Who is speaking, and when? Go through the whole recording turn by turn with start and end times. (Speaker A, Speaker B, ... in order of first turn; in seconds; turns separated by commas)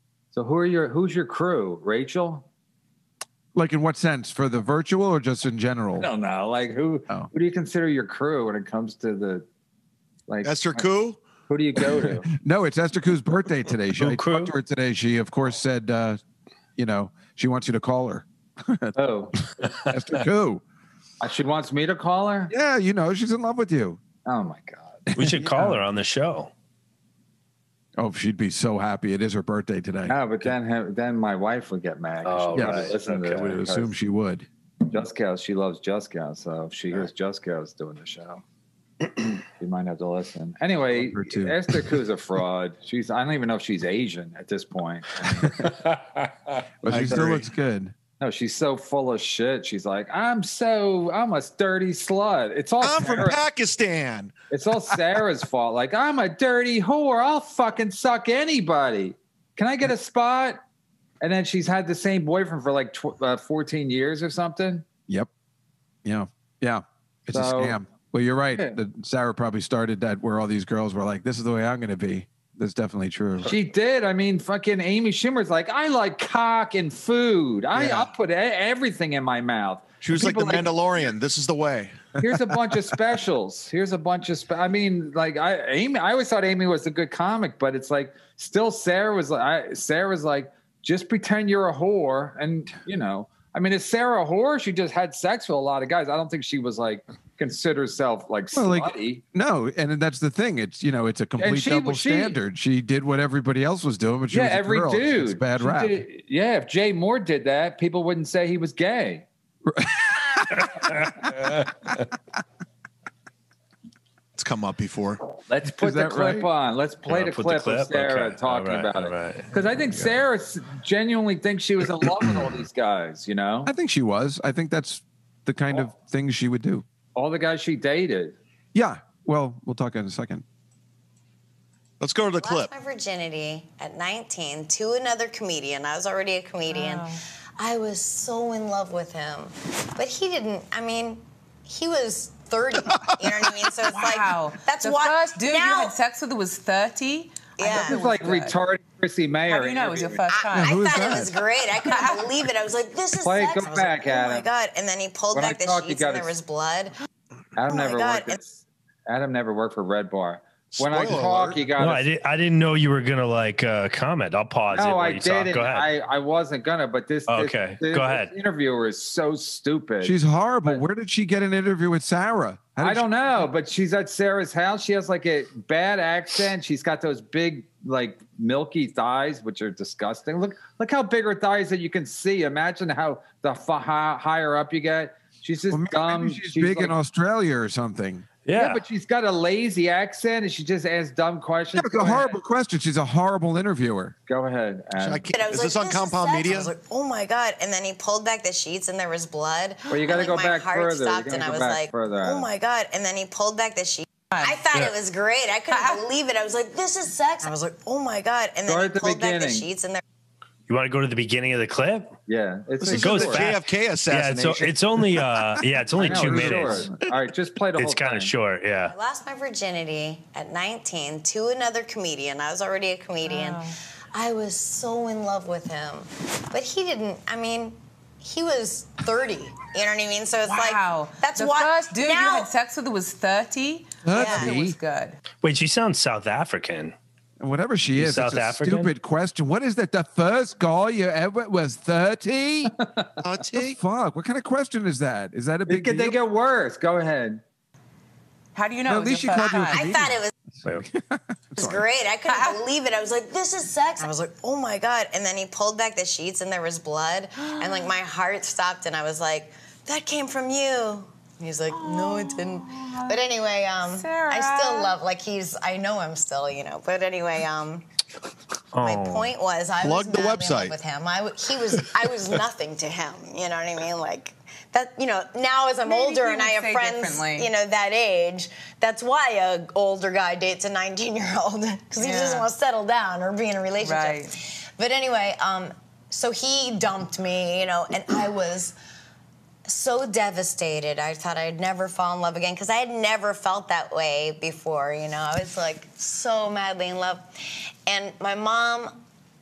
Speaker A: 0.3-2.5, Speaker B: 3.5-6.1, Speaker A: 6.0-9.4, Speaker A: 10.3-10.8, Speaker C: 10.4-11.2, Speaker A: 11.5-12.3, Speaker B: 12.3-16.2, Speaker D: 14.0-14.5, Speaker B: 16.8-19.0, Speaker A: 18.9-19.3, Speaker B: 19.9-20.6, Speaker A: 21.2-22.5, Speaker B: 22.5-24.0, Speaker A: 24.2-25.1, Speaker D: 25.2-26.5, Speaker B: 25.2-25.9, Speaker B: 28.0-30.2, Speaker A: 30.1-33.9, Speaker D: 32.2-33.4, Speaker B: 32.5-34.5, Speaker A: 34.9-38.4, Speaker A: 39.2-45.8, Speaker B: 40.9-41.6, Speaker B: 46.8-47.9, Speaker A: 46.9-47.4, Speaker C: 46.9-47.4, Speaker A: 48.2-53.4, Speaker C: 52.8-54.3, Speaker A: 54.5-60.6, Speaker A: 61.2-64.8, Speaker B: 66.0-73.5, Speaker A: 67.3-67.8, Speaker A: 68.5-68.8, Speaker A: 73.5-80.7, Speaker B: 77.7-78.1, Speaker C: 80.0-82.0, Speaker A: 82.2-99.2, Speaker B: 98.5-106.0, Speaker A: 101.4-102.4, Speaker A: 104.3-109.2, Speaker B: 109.6-111.5, Speaker D: 110.6-112.1, Speaker C: 114.3-115.2, Speaker A: 115.5-123.7, Speaker B: 115.8-116.5, Speaker D: 117.1-119.5, Speaker B: 123.7-126.8, Speaker A: 127.2-128.4, Speaker B: 128.7-130.4, Speaker C: 132.0-132.7, Speaker E: 132.4-145.9, Speaker F: 136.7-137.2, Speaker F: 143.8-148.6, Speaker E: 147.6-147.9, Speaker A: 147.7-150.2, Speaker F: 149.5-152.3, Speaker E: 150.3-156.9, Speaker B: 150.5-151.3, Speaker A: 153.2-154.5, Speaker A: 155.3-156.3, Speaker A: 157.6-162.1, Speaker E: 157.7-158.4, Speaker C: 160.7-161.6, Speaker D: 161.8-165.9, Speaker A: 164.7-170.1, Speaker D: 167.3-168.3, Speaker B: 170.0-173.5, Speaker A: 172.8-186.9, Speaker B: 185.7-188.3, Speaker D: 188.4-188.8, Speaker A: 188.5-192.3, Speaker B: 191.7-194.1, Speaker A: 194.3-195.3, Speaker C: 194.9-196.7, Speaker E: 195.3-210.0, Speaker A: 199.9-202.5, Speaker F: 204.3-204.7, Speaker F: 205.7-206.0, Speaker A: 208.7-209.7, Speaker D: 210.7-212.1, Speaker A: 212.3-213.5, Speaker C: 212.8-214.8, Speaker D: 212.9-216.9, Speaker A: 215.9-218.3, Speaker C: 216.2-216.5, Speaker D: 217.8-218.9, Speaker E: 218.9-232.5, Speaker F: 223.2-223.7, Speaker F: 230.4-235.2, Speaker B: 234.1-234.5, Speaker E: 234.1-234.5, Speaker A: 234.4-234.8, Speaker D: 235.4-236.9, Speaker B: 237.4-242.7, Speaker D: 237.9-238.9, Speaker A: 242.8-243.1, Speaker C: 243.2-243.8, Speaker B: 243.5-246.2, Speaker A: 245.7-247.4, Speaker F: 248.5-249.8, Speaker B: 248.9-250.2, Speaker E: 249.6-250.3, Speaker B: 250.8-251.8, Speaker E: 251.5-267.9, Speaker F: 252.2-252.7, Speaker F: 257.4-257.9, Speaker F: 261.7-263.2, Speaker F: 263.8-265.0, Speaker D: 268.7-269.3, Speaker E: 268.8-288.8, Speaker C: 269.8-270.7, Speaker F: 275.8-277.5, Speaker F: 282.0-282.5, Speaker F: 283.8-284.4, Speaker E: 289.6-297.3, Speaker E: 297.9-299.0